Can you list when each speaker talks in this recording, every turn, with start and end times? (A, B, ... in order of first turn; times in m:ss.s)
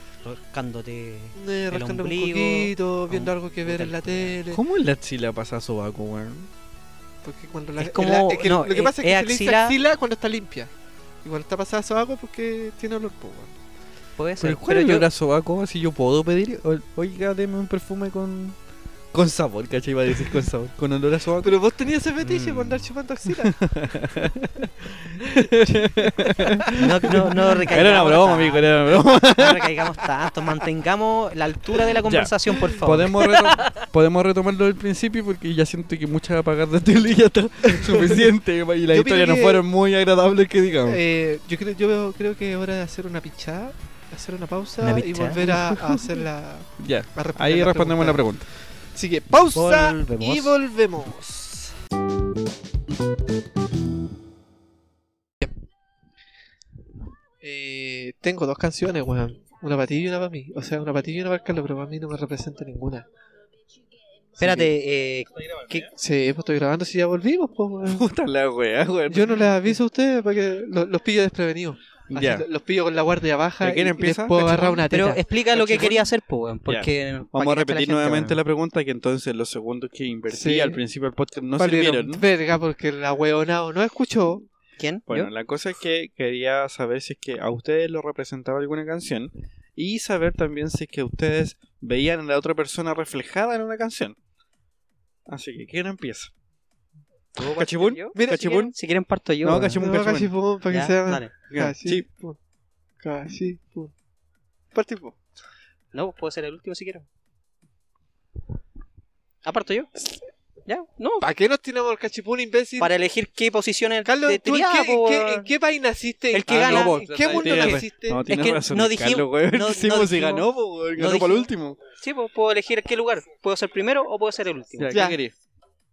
0:00.2-0:04.4 A
0:01.4-0:04.6 B
0:04.5-0:06.5 C
0:07.2-0:10.7 B
0:07.8-0:09.8 A
0:11.2-0:13.6 B
0:14.2-0:15.0 A
0:14.4-0:18.6 C
0:19.1-0:21.6 C
0:21.4-0:23.8 B
0:22.2-0:22.8 A
0:23.2-0:29.8 C
0:25.9-0:26.7 B
0:26.7-0:33.8 A
0:32.0-0:41.0 C
0:37.7-0:38.3 B
0:38.9-0:39.6 B
0:40.9-0:48.4 B
0:44.8-0:45.5 A
0:45.5-0:46.0 C
0:46.8-0:48.5 C
0:48.9-0:51.7 B
0:49.5-0:50.5 A
0:57.4-1:03.1 B
1:04.4-1:05.9 A
1:04.4-1:04.7 C
1:06.0-1:08.1 B
1:07.8-1:09.4 C
1:09.1-1:15.9 B
1:12.1-1:12.4 C
1:13.6-1:14.8 C
1:14.9-1:18.4 A
1:15.6-1:16.0 C
1:16.7-1:22.2 C
1:20.3-1:20.8 B
1:21.6-1:24.4 B
1:24.8-1:25.3 A
1:25.1-1:34.2 C
1:35.3-1:36.3 C
1:37.4-1:39.8 A
1:37.4-1:38.7 C
1:38.1-1:38.7 B
1:39.4-1:40.3 C
1:39.8-1:42.4 B
1:40.7-1:41.3 A
1:41.5-1:42.0 C
1:43.0-1:43.9 B
1:44.7-1:45.2 B
1:45.9-1:47.1 A
1:49.4-1:49.9 A
1:50.6-1:51.2 A
1:51.2-1:52.9 B
1:52.8-1:55.5 A
1:54.0-1:58.3 B
1:56.3-2:05.0 A
1:56.5-2:01.8 C
2:04.8-2:05.3 C
2:04.9-2:05.2 B